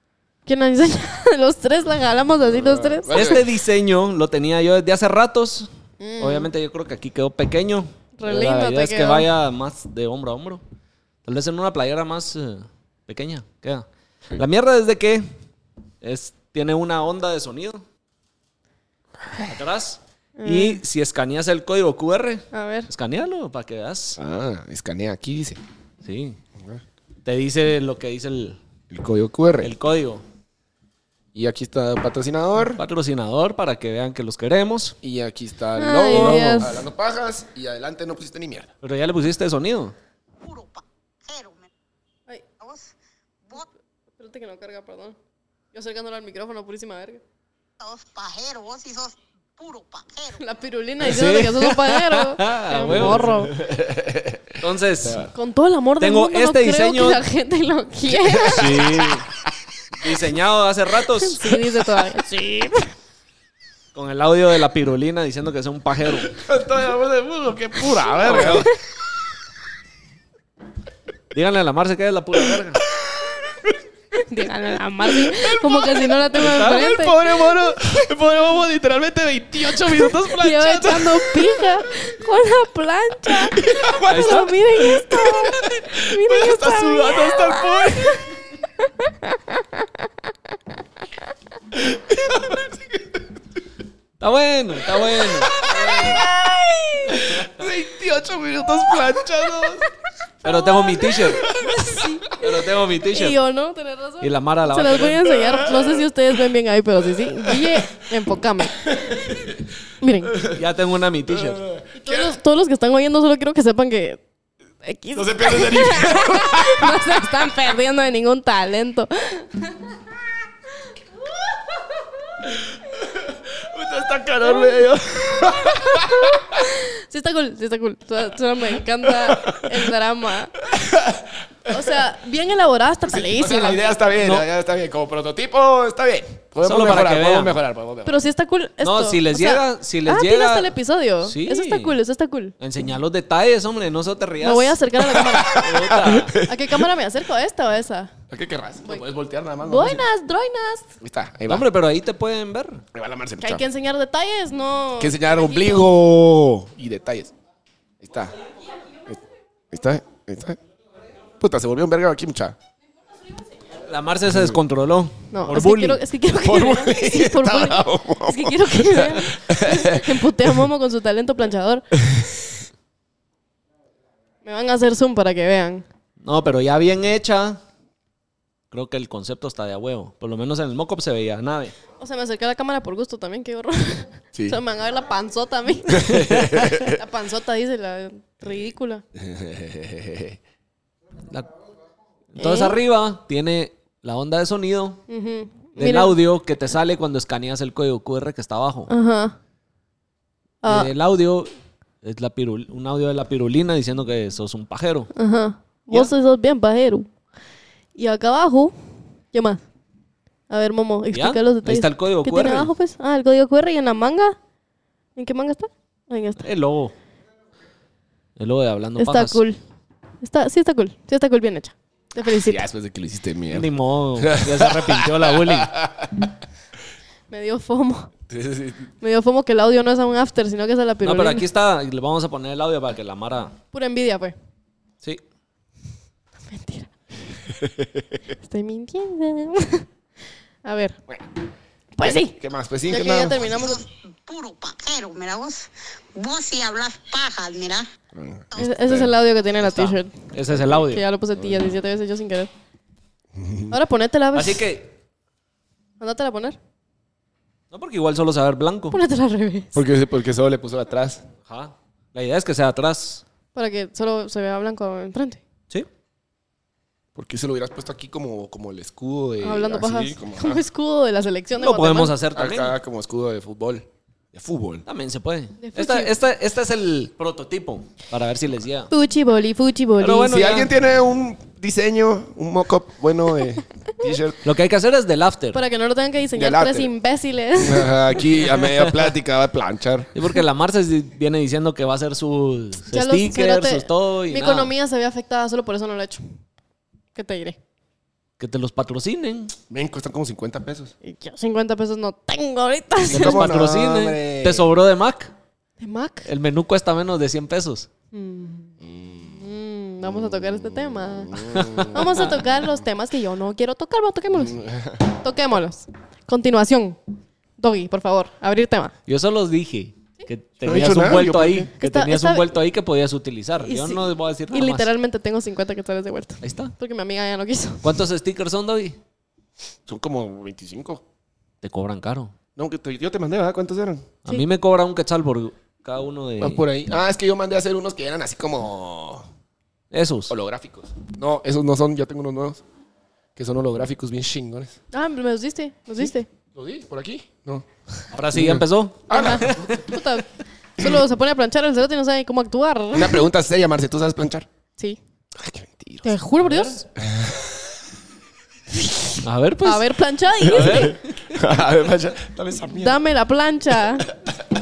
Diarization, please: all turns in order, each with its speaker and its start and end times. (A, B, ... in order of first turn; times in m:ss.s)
0:00.5-0:03.4 A
0:02.5-0:03.5 B
0:03.1-0:10.6 C
0:06.0-0:06.5 A
0:08.2-0:09.3 A
0:11.2-0:15.3 C
0:16.0-0:17.8 C
0:19.4-0:24.2 C
0:20.4-0:20.8 A
0:22.5-0:22.9 A
0:24.2-0:25.6 B
0:26.0-0:26.4 C
0:27.2-0:28.6 C
0:28.9-0:29.7 B
0:29.6-0:30.2 C
0:31.3-0:32.8 B
0:32.8-0:35.0 C
0:35.0-0:38.7 B
0:35.8-0:36.8 A
0:36.1-0:36.5 C
0:38.8-0:39.9 C
0:40.4-0:41.7 D
0:42.6-0:42.9 D
0:44.2-0:45.2 A
0:45.7-0:47.2 A
0:47.8-0:50.4 D
0:50.4-0:53.5 A
0:51.0-0:53.6 C
0:52.9-0:55.3 B
0:54.6-0:55.3 C
0:55.3-0:58.8 A
0:56.0-0:57.2 C
0:58.1-1:00.1 B
0:58.5-0:59.3 C
1:00.0-1:01.7 C
1:01.2-1:02.9 A
1:03.9-1:06.4 C
1:06.3-1:08.7 B
1:08.2-1:08.7 C
1:11.3-1:12.8 C
1:12.5-1:13.8 B
1:14.2-1:17.2 A
1:15.0-1:21.7 B
1:16.4-1:16.7 C
1:20.3-1:30.1 A
1:23.3-1:28.2 B
1:24.1-1:24.5 C
1:31.7-1:33.3 B
1:34.2-1:36.2 C
1:35.0-1:36.3 B
1:35.7-1:37.3 A
1:37.1-1:39.9 B
1:40.4-1:41.5 C
1:40.4-1:42.4 A
1:41.3-1:41.9 B
1:42.3-1:43.4 C
1:43.1-1:48.8 A
1:44.2-1:45.4 C
1:45.4-1:46.0 B
1:47.3-1:47.8 B
1:48.8-1:49.6 B
1:50.0-1:50.4 A
1:50.3-1:50.6 B
1:50.5-1:51.6 C
1:51.4-1:52.4 B
1:52.0-1:54.2 A
1:54.8-1:59.9 A
1:55.2-1:57.3 B
2:02.4-2:06.7 B
2:04.4-2:04.8 A
2:05.4-2:10.6 A
2:09.1-2:09.8 B
2:10.6-2:12.0 B
2:11.7-2:13.8 A
2:13.1-2:18.3 B
2:16.6-2:17.5 C
2:18.0-2:22.6 A
2:18.8-2:22.0 C
2:22.6-2:24.8 C
2:24.4-2:28.1 A
2:25.1-2:26.8 B
2:25.4-2:26.4 C
2:28.3-2:30.0 B
2:29.6-2:30.9 A
2:31.0-2:31.7 B
2:31.5-2:32.8 C
2:32.9-2:33.6 B
2:33.4-2:35.9 A
2:35.0-2:37.3 B
2:38.0-2:38.4 B
2:39.0-2:40.6 B
2:41.4-2:42.6 B
2:43.8-2:46.0 C
2:45.3-2:51.9 A
2:46.3-2:50.5 B
2:52.0-2:52.6 B
2:54.4-2:55.9 A
2:56.2-2:57.6 C
2:58.7-3:01.8 C
3:02.0-3:09.0 A
3:05.9-3:07.0 B
3:06.2-3:06.6 C
3:09.2-3:10.4 B
3:12.4-3:15.0 C
3:12.4-3:12.8 A
3:15.1-3:16.2 A
3:15.8-3:18.9 C
3:18.9-3:19.4 A
3:20.6-3:20.9 A
3:20.7-3:21.5 C
3:22.0-3:25.1 C
3:25.2-3:27.1 A
3:28.0-3:28.8 A
3:29.3-3:29.6 A
3:30.5-3:34.4 A
3:31.1-3:32.7 C
3:35.2-3:36.5 A
3:36.4-3:36.9 C
3:38.4-3:39.4 C
3:39.0-3:39.6 A
3:40.2-3:42.6 A
3:42.3-3:46.3 B
3:43.5-3:45.7 C
3:47.3-3:48.1 A
3:48.3-3:48.9 B
3:49.0-3:51.4 A
3:51.0-3:53.6 C
3:53.7-3:54.4 A
3:56.5-3:56.9 A
3:57.5-3:58.1 B
3:58.4-3:59.9 A
4:00.6-4:01.0 A
4:02.0-4:02.4 A
4:02.0-4:03.4 B
4:02.9-4:03.8 A
4:03.2-4:07.9 D
4:08.1-4:09.1 B
4:08.6-4:12.5 A
4:09.6-4:11.0 C
4:13.4-4:13.8 B
4:13.7-4:14.7 A
4:14.3-4:14.9 C
4:16.0-4:16.6 A
4:17.7-4:19.0 C
4:18.9-4:19.8 A
4:19.7-4:21.2 B
4:21.5-4:23.2 C
4:23.6-4:25.4 A
4:27.2-4:30.6 B
4:29.4-4:32.2 A
4:31.6-4:32.8 C
4:32.3-4:34.8 B
4:34.9-4:38.9 C
4:35.6-4:36.1 A
4:38.9-4:40.4 A
4:40.0-4:40.7 C
4:40.2-4:44.4 B
4:44.4-4:45.6 C
4:45.5-4:48.0 A
4:46.4-4:46.9 B
4:47.6-4:50.2 B
4:50.2-4:54.7 C
4:52.9-4:56.2 A
4:57.2-4:57.6 A
4:58.4-4:59.5 C
4:59.7-5:00.9 B
5:01.0-5:03.4 A
5:03.0-5:04.7 B
5:03.1-5:05.3 C
5:05.8-5:06.3 A
5:06.3-5:07.9 C
5:08.1-5:08.7 A
5:08.8-5:09.4 B
5:09.3-5:17.0 A
5:10.0-5:12.2 B
5:11.5-5:11.9 C
5:14.3-5:15.0 B
5:17.6-5:18.9 A
5:19.1-5:24.9 C
5:20.6-5:21.7 B
5:21.8-5:22.5 A
5:23.6-5:28.0 A
5:26.4-5:26.7 C
5:27.8-5:29.0 C
5:29.9-5:31.0 B
5:31.6-5:32.3 C
5:32.6-5:34.1 B
5:34.2-5:36.6 C
5:36.4-5:39.3 B
5:39.9-5:40.3 C
5:40.3-5:42.6 B
5:43.4-5:44.8 B
5:44.9-5:46.3 A
5:46.6-5:47.6 B
5:48.1-5:49.8 C
5:48.3-5:50.0 B
5:49.1-5:50.3 A
5:50.8-5:53.3 A
5:52.9-5:54.5 B
5:55.4-5:56.1 B
5:56.0-5:56.8 A
5:56.4-5:56.8 C
5:57.0-5:57.8 B
5:58.9-6:01.0 A
5:59.2-6:01.3 C
6:00.5-6:03.0 B
6:02.8-6:04.1 A